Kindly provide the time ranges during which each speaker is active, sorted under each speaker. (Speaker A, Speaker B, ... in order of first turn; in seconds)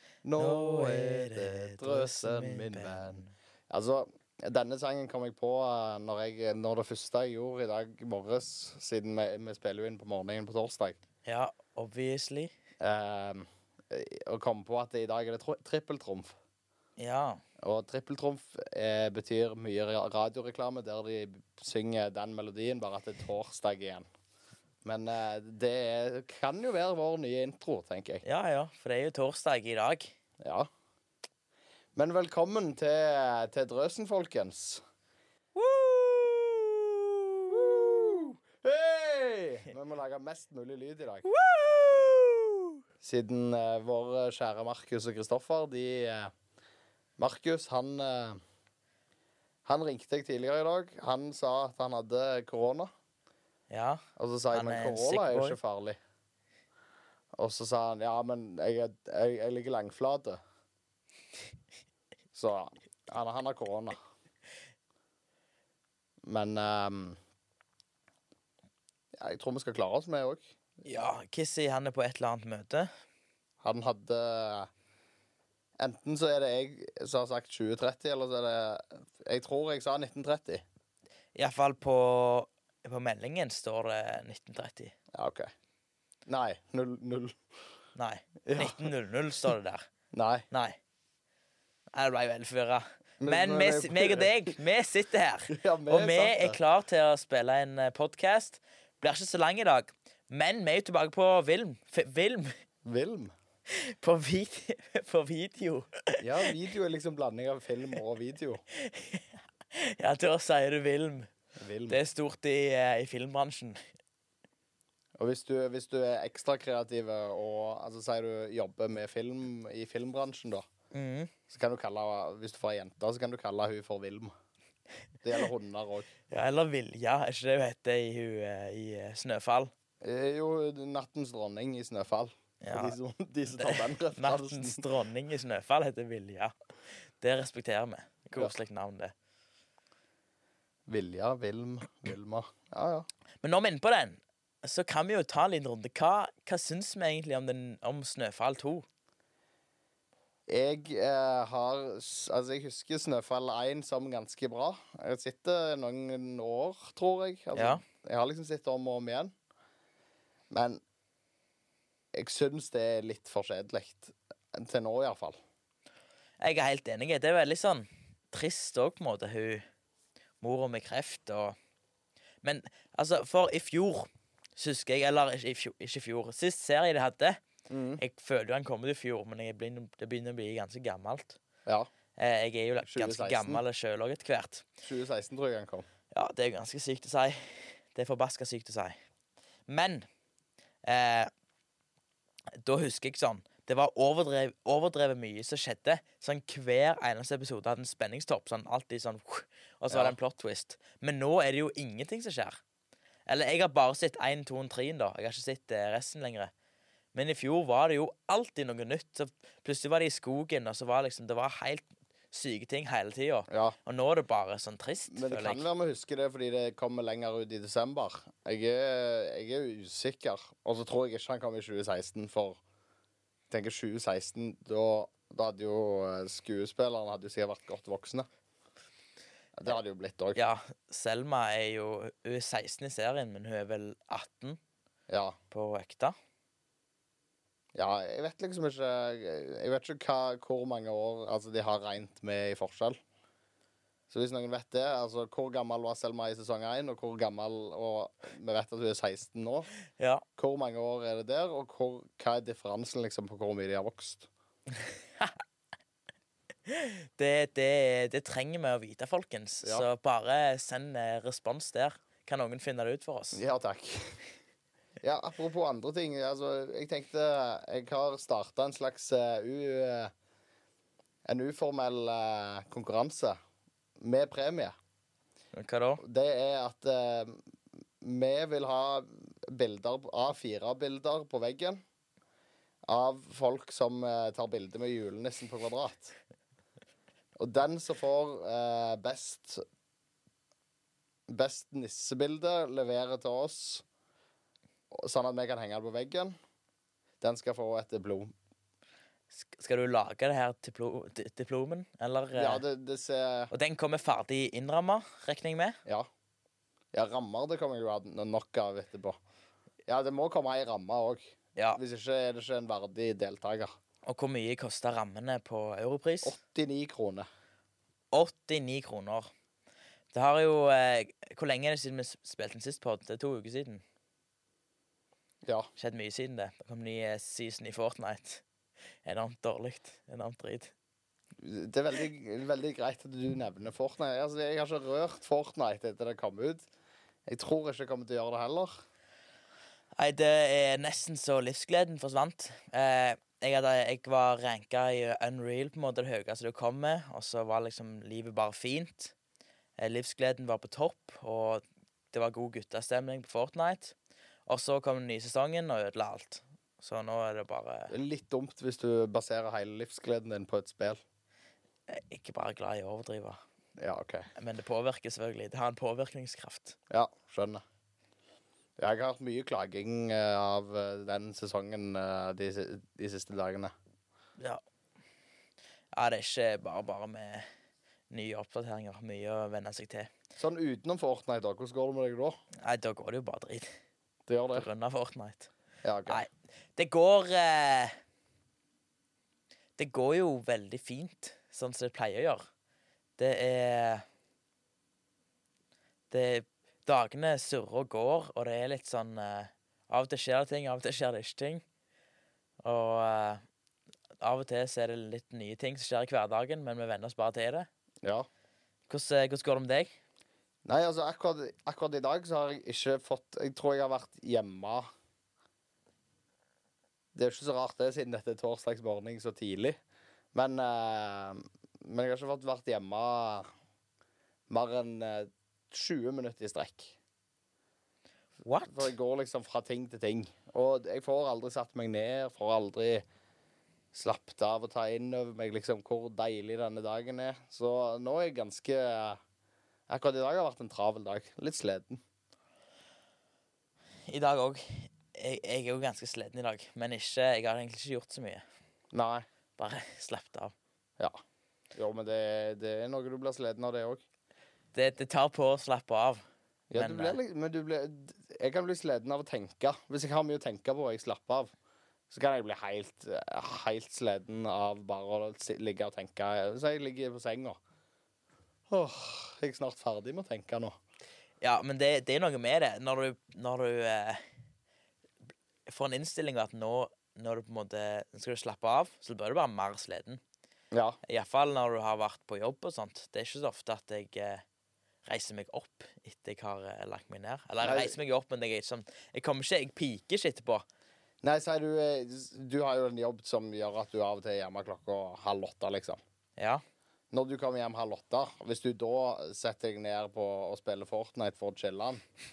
Speaker A: 0.2-11.0, 12.8-16.4, 17.6-24.0, 24.8-28.2, 30.4-30.7, 31.9-34.8, 37.5-41.3, 43.0-46.3, 47.2-48.4, 49.6-52.9, 54.2-56.0, 57.4-60.4, 62.3-64.0, 66.2-67.2, 69.2-70.5, 73.6-74.7, 75.8-80.6, 85.1-85.5, 86.3-87.4, 88.5-88.9, 90.1-90.5, 93.2-94.5, 95.5-96.6, 102.8-103.3, 106.2-108.6, 111.6-112.0, 115.2-120.6, 121.5-124.3, 125.2-126.1, 130.0-134.8, 140.9-143.1, 150.5-159.3, 160.5-160.8, 162.1-165.4, 177.7-178.0, 182.8-183.6, 184.8-185.8, 199.9-200.2, 213.5-213.8, 215.1-222.6, 223.5-228.3, 229.6-230.4, 235.1-235.3, 237.7-243.0, 244.1-249.7, 250.4-254.3, 263.3-264.2, 265.0-270.1, 271.2-273.4, 274.0-274.7, 276.0-277.4, 278.0-281.8, 282.9-286.1, 287.4-289.6, 291.3-293.8, 294.9-296.3, 297.2-298.3, 302.3-303.5, 306.9-309.2, 309.9-313.7, 316.2-317.2, 331.4-336.7, 337.3-338.7, 357.9-361.0, 363.8-364.3, 366.9-367.6, 368.8-373.7, 380.4-382.3, 384.3-384.7, 385.8-386.2, 410.6-414.9, 417.1-419.8, 420.3-423.5, 424.5-427.0, 428.6-433.0, 433.9-439.2, 439.9-442.0, 448.9-449.2, 451.7-454.0, 456.7-461.5, 462.1-467.6, 468.7-470.8, 480.7-481.0, 487.6-487.9, 491.2-496.0, 497.1-502.0
Speaker B: 0.4-3.3, 11.2-12.5, 17.0-17.4, 28.2-30.1, 35.5-37.7, 41.2-42.7, 53.7-55.6, 70.8-72.9, 81.3-84.9, 87.9-89.8, 90.5-90.8, 91.9-102.5, 103.8-106.5, 108.8-111.3, 111.9-113.8, 120.9-121.3, 126.3-129.7, 132.6-132.9, 133.5-136.5, 137.2-139.1, 143.4-148.8, 157.5-157.8, 166.4-169.6, 170.4-171.5, 172.4-177.4, 178.0-181.4, 182.2-184.7, 186.1-188.9, 189.7-190.0, 190.8-191.3, 192.6-202.6, 203.3-206.5, 207.1-215.7, 230.3-234.6, 235.5-236.1, 250.0-250.2, 256.7-263.4, 275.5-276.0, 299.4-302.6, 303.5-305.8, 314.1-316.4, 318.1-319.3, 320.1-323.8, 325.8-328.4, 329.0-330.7, 340.0-349.1, 349.8-353.9, 354.5-357.9, 361.9-363.4, 364.3-366.8, 375.9-377.4, 378.1-380.1, 382.6-383.7, 384.5-385.5, 386.1-387.9, 389.8-392.4, 393.2-394.0, 396.1-401.6, 402.6-403.4, 404.2-407.7, 408.9-409.9, 428.4-428.9, 444.1-448.4, 449.6-450.5, 454.7-456.2, 456.7-457.2, 471.4-474.2, 475.7-480.2, 481.1-484.4, 485.1-490.6